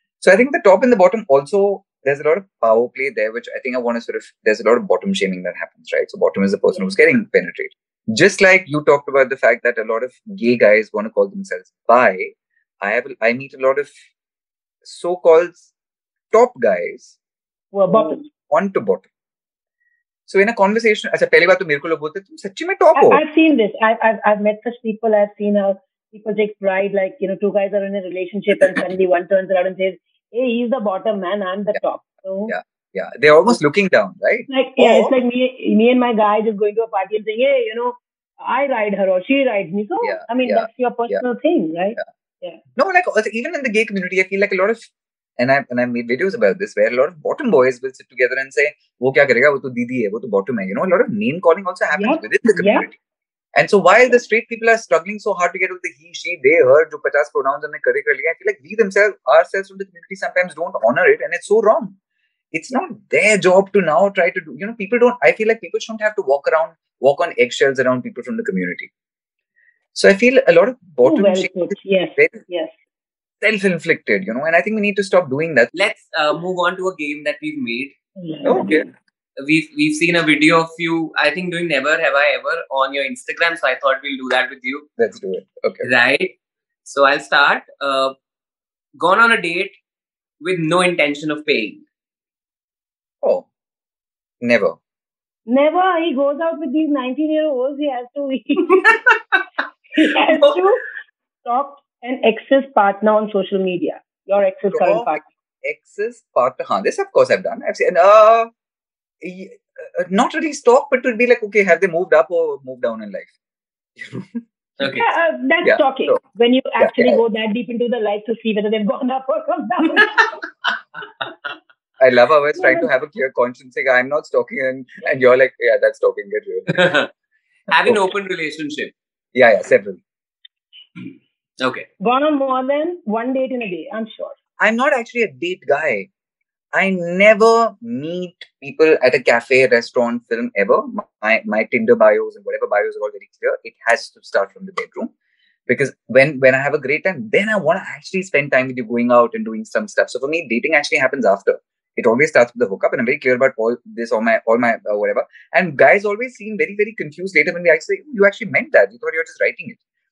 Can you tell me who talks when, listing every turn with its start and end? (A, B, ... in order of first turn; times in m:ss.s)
0:00.2-0:13.9 A
0:14.8-0:15.7 A
0:16.3-0:17.2 A
0:17.7-0:18.2 B
0:17.9-0:19.1 A
0:20.3-0:23.2 A
0:22.9-0:32.5 B
0:32.5-0:35.2 A
0:34.5-0:42.6 B
0:40.0-0:41.2 A
0:42.8-0:53.0 A
0:51.9-0:52.8 B
0:53.5-1:01.9 A
1:02.5-1:08.9 A
1:09.9-1:12.4 A
1:11.0-1:12.8 B
1:13.4-1:15.7 A
1:15.7-1:17.9 C
1:18.2-1:18.9 B
1:18.4-1:18.8 A
1:19.4-1:24.9 C
1:25.0-1:25.9 A
1:25.8-1:26.3 C
1:26.8-1:28.1 C
1:29.0-1:29.8 C
1:30.4-1:31.8 C
1:33.2-1:33.5 A
1:34.4-1:34.8 A
1:35.5-1:38.8 B
1:38.9-1:39.4 C
1:40.0-1:40.9 B
1:41.4-1:45.2 B
1:44.7-1:48.5 A
1:49.2-1:53.3 A
1:54.0-1:54.4 A
1:54.8-1:55.0 C
1:54.8-2:00.3 B
1:55.6-1:56.2 A
1:56.8-1:57.2 A
2:02.0-2:06.8 A
2:02.6-2:02.9 B
2:06.7-2:07.1 C
2:07.7-2:08.9 C
2:09.3-2:10.0 A
2:11.6-2:11.9 C
2:12.0-2:14.4 B
2:14.6-2:16.1 A
2:16.7-2:25.1 A
2:25.7-2:39.8 A